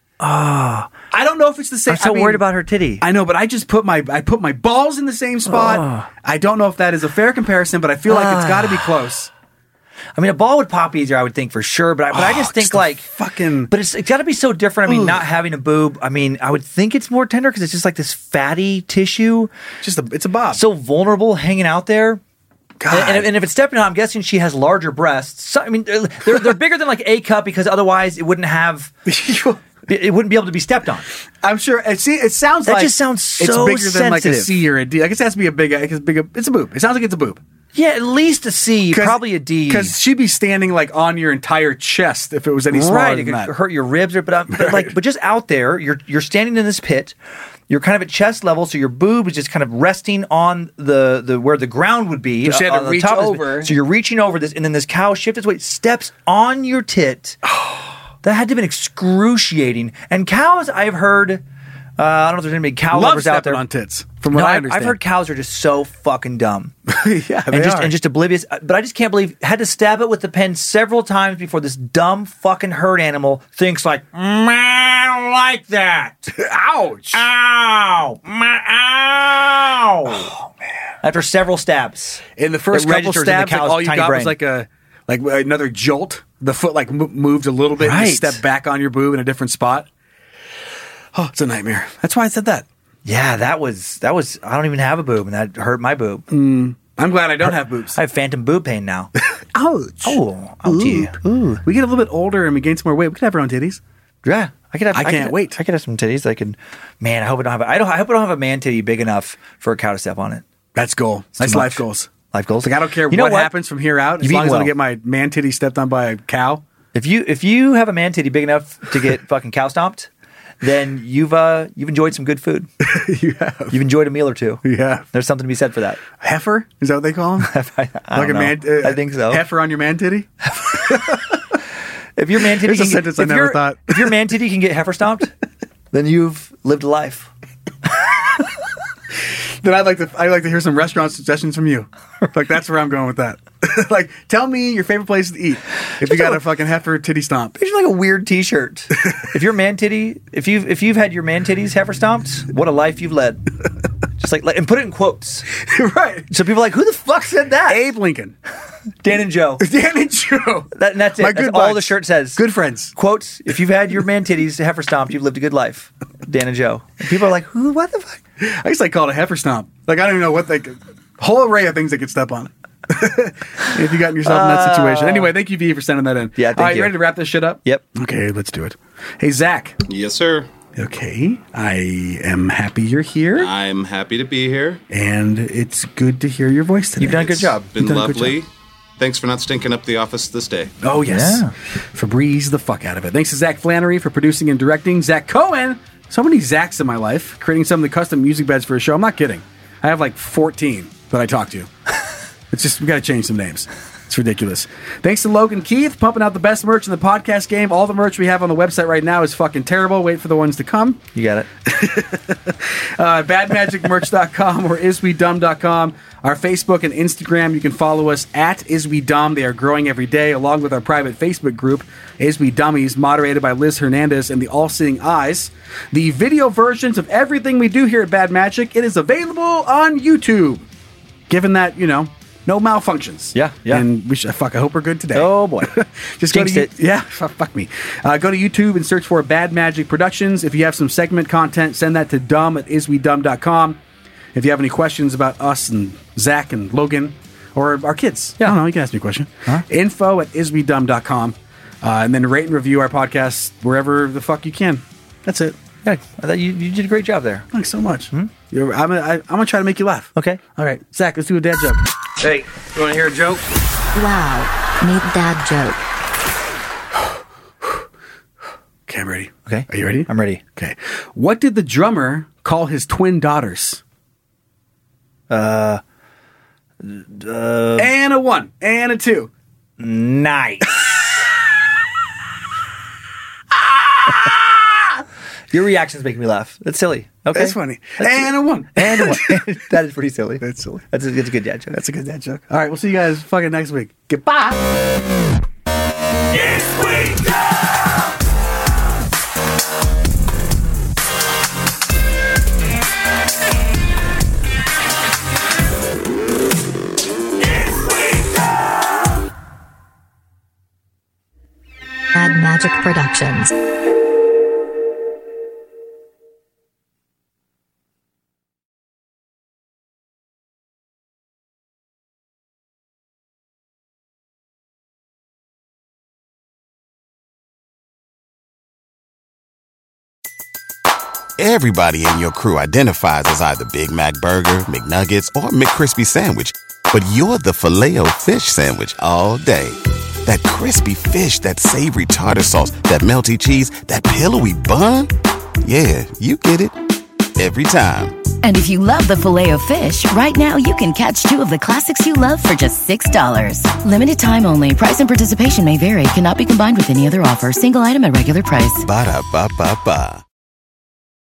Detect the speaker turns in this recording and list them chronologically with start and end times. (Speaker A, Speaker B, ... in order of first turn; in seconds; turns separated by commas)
Speaker A: 0.2-0.9, Speaker B: 1.1-2.4, Speaker A: 1.9-3.0, Speaker B: 3.0-9.3, Speaker A: 5.5-6.1, Speaker A: 8.1-8.9, Speaker A: 10.2-13.1, Speaker B: 12.1-13.7, Speaker A: 13.7-19.5, Speaker B: 14.8-15.2, Speaker B: 19.8-20.6, Speaker A: 20.5-22.2, Speaker B: 22.8-23.3, Speaker A: 22.9-28.9, Speaker B: 29.1-29.6, Speaker A: 29.9-31.1, Speaker B: 31.4-37.4, Speaker A: 32.6-34.6, Speaker A: 37.7-39.9, Speaker B: 38.9-43.5, Speaker A: 42.7-47.1, Speaker B: 44.5-44.9, Speaker A: 47.7-57.4, Speaker B: 52.4-53.7, Speaker B: 57.4-57.8, Speaker A: 58.2-61.4, Speaker A: 62.0-63.6, Speaker B: 62.9-65.0, Speaker A: 64.3-66.7, Speaker B: 66.9-68.0, Speaker A: 67.5-76.3, Speaker B: 76.3-77.3, Speaker A: 77.1-80.4, Speaker A: 81.0-84.4, Speaker B: 82.4-89.9, Speaker A: 87.8-88.4, Speaker B: 91.1-92.7, Speaker A: 93.0-96.3, Speaker B: 96.3-98.0, Speaker A: 97.4-99.1, Speaker B: 99.3-103.8, Speaker A: 100.0-101.6, Speaker A: 104.2-110.4, Speaker B: 104.9-105.6, Speaker B: 110.7-112.1, Speaker A: 111.3-113.5, Speaker B: 112.6-116.6, Speaker A: 114.2-114.7, Speaker A: 116.9-120.1, Speaker A: 120.6-122.7, Speaker B: 122.8-123.8, Speaker A: 123.7-126.0, Speaker B: 124.6-125.0, Speaker B: 126.2-127.5, Speaker A: 127.5-129.4, Speaker B: 128.1-130.3, Speaker A: 130.4-131.2, Speaker B: 130.8-131.3, Speaker A: 132.2-135.3, Speaker B: 132.4-134.2, Speaker A: 135.9-137.3, Speaker B: 139.6-147.6, Speaker A: 146.0-146.4, Speaker A: 147.6-153.4, Speaker A: 154.2-155.5, Speaker B: 155.6-156.3, Speaker A: 156.3-157.9, Speaker B: 157.7-158.3, Speaker A: 159.0-159.6, Speaker B: 159.6-162.9, Speaker A: 160.7-162.4, Speaker A: 162.9-168.2, Speaker B: 168.4-179.8, Speaker A: 174.2-175.3, Speaker A: 176.4-177.0, Speaker C: 179.9-180.5, Speaker B: 180.8-183.5, Speaker C: 183.4-184.8, Speaker B: 184.9-187.6, Speaker A: 187.0-188.4, Speaker C: 187.5-188.5, Speaker C: 189.0-190.7, Speaker B: 190.8-201.7, Speaker A: 191.1-191.5, Speaker B: 202.5-211.0, Speaker A: 211.1-211.5, Speaker B: 211.6-230.6, Speaker B: 231.3-243.8, Speaker A: 233.3-233.9, Speaker A: 235.1-235.7, Speaker A: 236.3-236.7, Speaker B: 244.3-255.6, Speaker A: 255.8-257.5, Speaker B: 257.5-261.8, Speaker A: 260.1-260.4, Speaker D: 263.9-265.8, Speaker B: 268.9-273.8, Speaker A: 269.4-270.4, Speaker A: 275.3-275.8, Speaker A: 276.8-277.9, Speaker B: 277.8-279.3, Speaker A: 279.8-281.0, Speaker B: 283.5-284.8, Speaker A: 285.5-291.8, Speaker B: 287.3-289.6, Speaker B: 290.4-290.9, Speaker B: 291.7-294.6, Speaker B: 296.6-297.1, Speaker D: 312.1-313.5, Speaker E: 331.4-346.8, Speaker E: 347.4-348.2, Speaker F: 348.4-358.9, Speaker E: 358.9-360.2